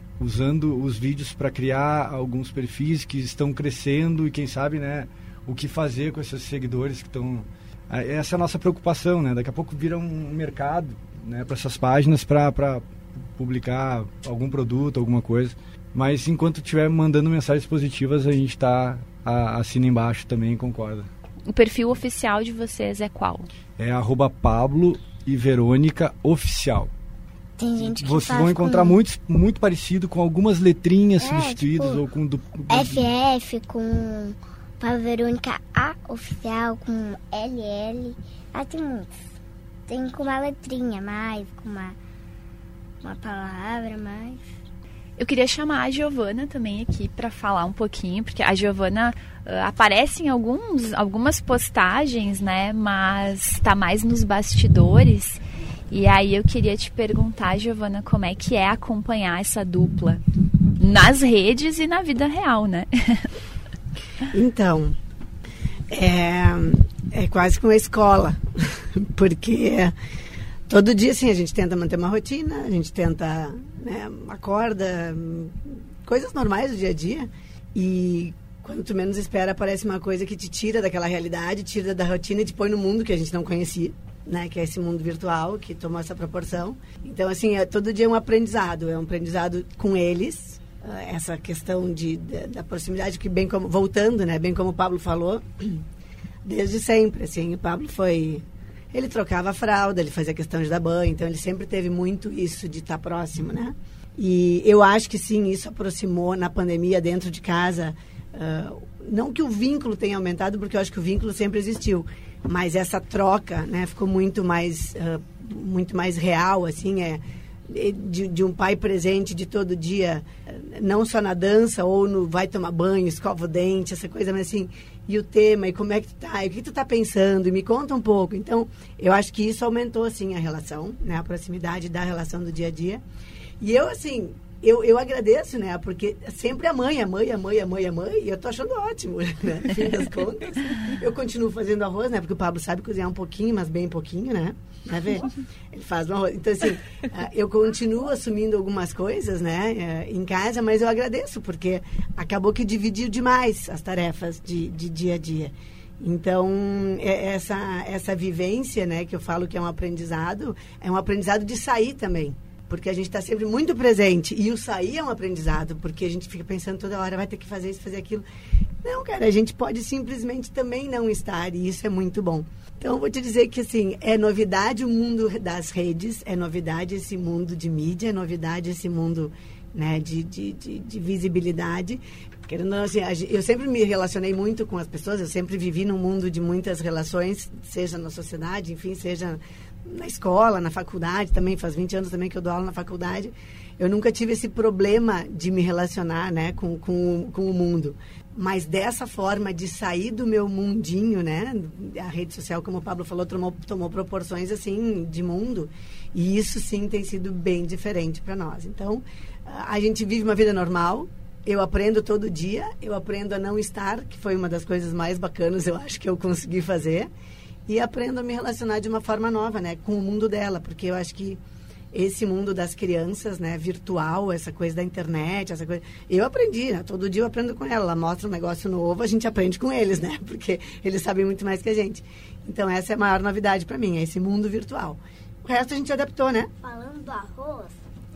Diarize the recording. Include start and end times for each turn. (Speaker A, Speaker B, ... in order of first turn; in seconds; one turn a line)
Speaker A: 0.2-21.1
Speaker B: 21.5-23.5
Speaker A: 23.8-26.9
Speaker C: 27.6-29.0
Speaker A: 27.8-33.1
Speaker C: 31.2-32.0
Speaker C: 32.7-39.2
Speaker C: 39.9-42.0
Speaker C: 43.0-44.4
Speaker B: 45.2-60.2
Speaker B: 60.8-63.3
Speaker D: 64.3-65.0
Speaker D: 65.9-69.9
Speaker D: 70.7-95.8
Speaker D: 96.4-133.0
Speaker D: 133.6-168.2
Speaker D: 168.8-217.1
Speaker D: 217.7-221.4
Speaker D: 221.9-236.5
Speaker C: 236.6-237.8